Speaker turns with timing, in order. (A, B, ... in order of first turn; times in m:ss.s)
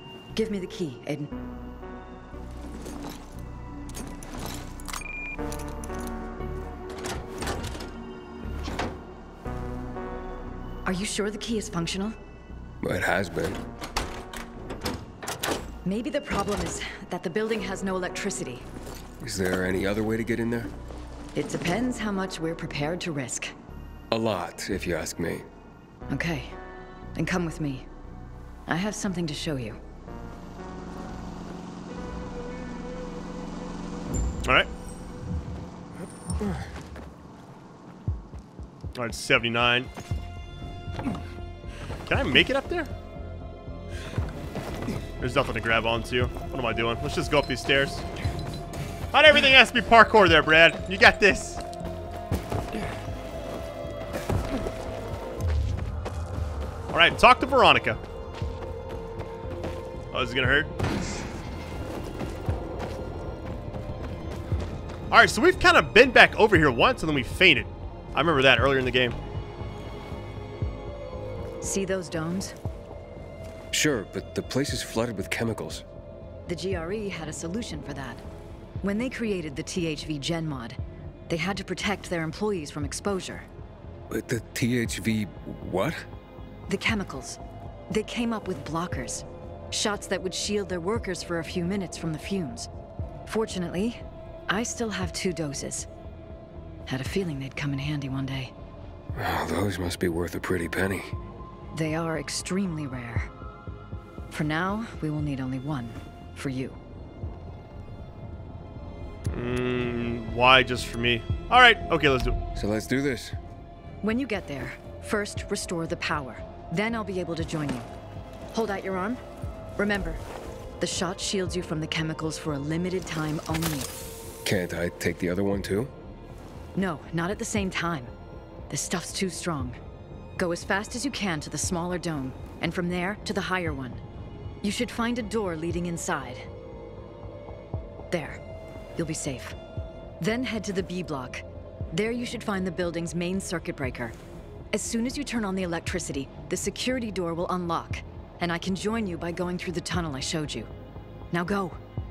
0:00.3-0:01.3 A
0:10.8-0:12.2 A
0:12.8-0:13.6 B
0:15.8-0:18.6 A
0:19.2-0:20.7 B
0:21.3-0:23.5 A
0:24.1-0:25.4 B
0:26.1-0:26.6 A
0:27.2-0:27.8 A
0:28.7-0:29.8 A
0:34.4-0:34.7 C
0:38.9-0:39.9 C
0:42.0-0:42.9 C
0:45.2-0:48.0 C
0:49.1-0:51.6 C
0:56.9-0:58.0 C
1:00.1-1:00.7 C
1:05.1-1:09.2 C
1:11.6-1:12.5 A
1:13.7-1:15.8 B
1:16.4-1:18.2 A
1:18.8-1:20.8 A
1:21.3-1:23.5 A
1:24.1-1:26.0 B
1:26.7-1:27.4 A
1:27.9-1:32.7 A
1:33.3-1:35.9 A
1:36.9-1:38.5 A
1:39.1-1:41.1 B
1:41.7-1:43.3 A
1:44.3-1:46.8 A
1:49.3-1:52.4 C
1:52.5-1:53.4 B
1:54.0-1:57.9 A
1:58.5-1:59.2 A
1:59.8-2:00.2 A
2:00.8-2:03.9 A
2:04.4-2:05.9 B
2:06.7-2:08.1 A
2:08.7-2:09.8 A
2:10.4-2:14.0 A
2:14.6-2:16.5 A
2:18.1-2:18.4 A
2:19.0-2:19.6 A
2:20.2-2:24.1 A
2:24.7-2:30.7 A
2:31.3-2:31.8 A